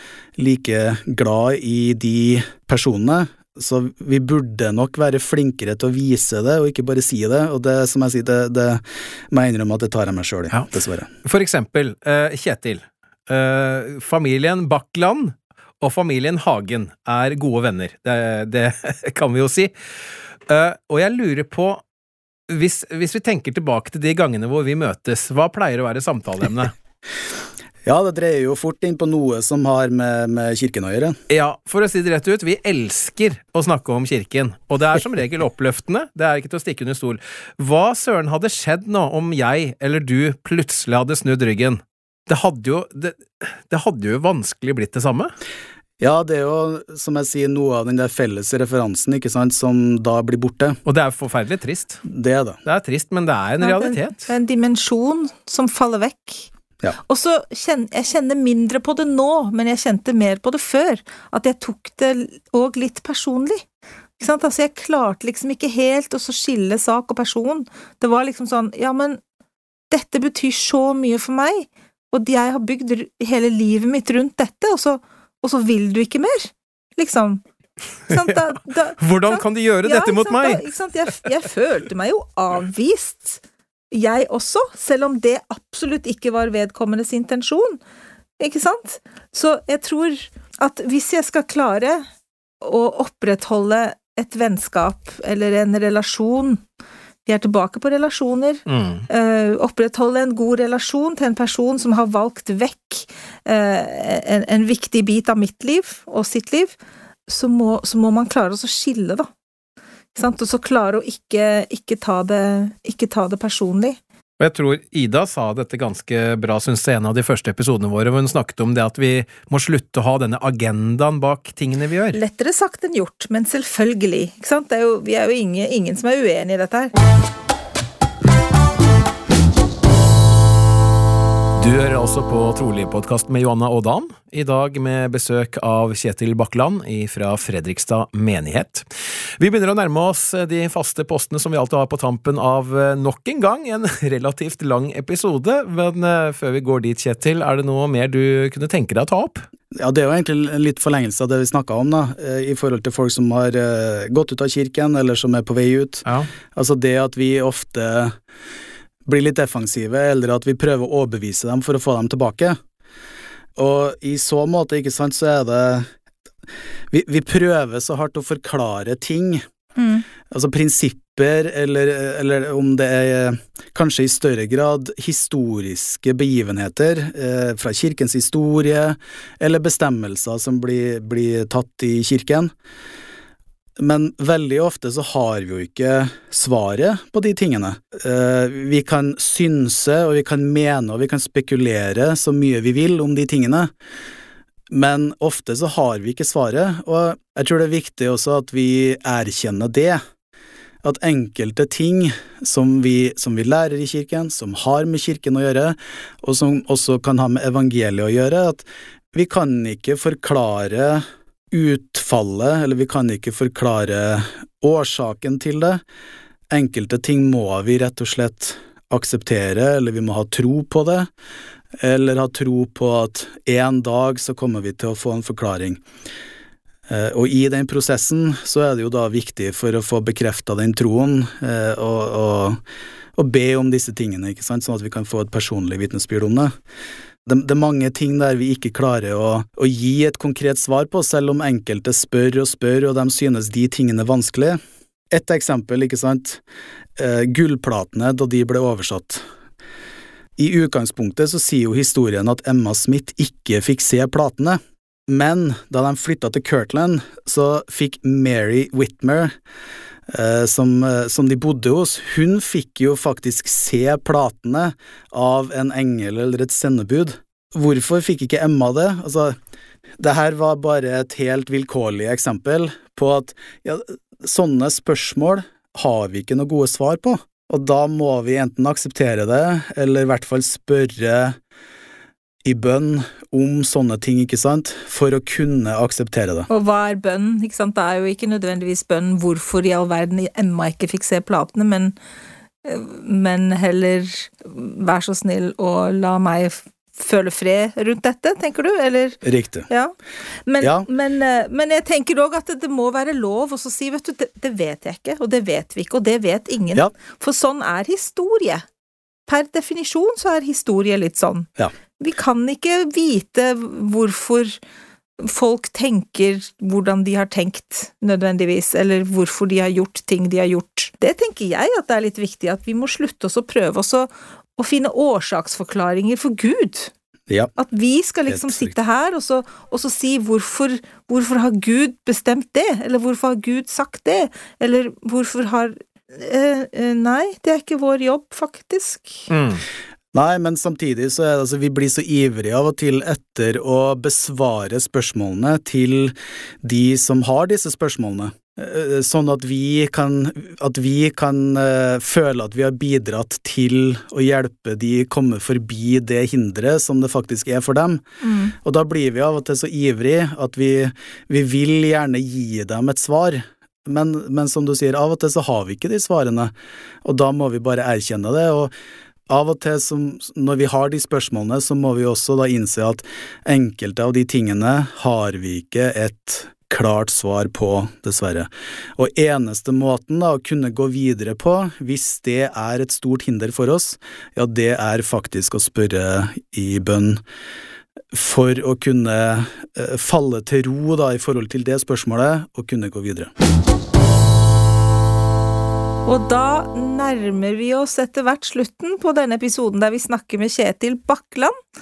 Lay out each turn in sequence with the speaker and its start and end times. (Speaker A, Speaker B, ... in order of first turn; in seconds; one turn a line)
Speaker A: 0.4-11.1
Speaker B: 11.2-19.7
Speaker B: 20.5-21.8
Speaker B: 22.5-26.7
Speaker A: 27.8-31.2
Speaker B: 31.3-45.3
Speaker A: 46.0-50.8
Speaker B: 50.9-52.0
Speaker A: 52.0-52.6
Speaker B: 52.6-54.3
Speaker C: 53.6-56.5
Speaker C: 57.0-63.6
Speaker C: 64.2-69.2
Speaker C: 69.9-77.4
Speaker C: 78.1-87.8
Speaker B: 79.0-80.7
Speaker C: 88.4-92.1
Speaker C: 92.6-96.6
Speaker C: 97.3-106.8
Speaker B: 98.7-99.1
Speaker C: 107.3-109.3
Speaker C: 110.2-114.0
Speaker B: 114.4-122.2
Speaker C: 122.1-126.9
Speaker B: 131.6-138.8
Speaker B: 139.4-149.4
Speaker A: 149.8-158.2
Speaker A: 159.1-162.6
Speaker A: 163.6-165.9
Speaker A: 166.9-169.4
Speaker C: 169.8-170.1
Speaker A: 170.3-182.5
Speaker A: 183.8-193.7
Speaker A: 194.7-200.0
Speaker A: 200.8-215.8
Speaker A: 216.5-221.1
Speaker A: 221.8-225.8
Speaker A: 226.9-232.6
Speaker A: 233.2-236.5
Speaker A: 237.3-244.6
Speaker A: 245.1-246.4
Speaker A: 247.0-249.2
Speaker A: 250.4-259.3
Speaker A: 260.1-269.4
Speaker A: 270.0-281.4
Speaker A: 282.4-286.5
Speaker C: 286.5-291.9
Speaker C: 292.6-308.6
Speaker A: 299.2-299.7
Speaker A: 300.6-300.9
Speaker C: 309.3-314.6
Speaker C: 315.2-326.9
Speaker C: 327.6-339.3
Speaker A: 328.3-328.7
Speaker B: 339.3-339.6
Speaker A: 340.1-358.0
Speaker C: 358.2-358.6
Speaker A: 358.6-366.5
Speaker A: 367.0-368.7
Speaker A: 369.3-387.2
Speaker A: 388.1-393.3
Speaker C: 396.1-401.6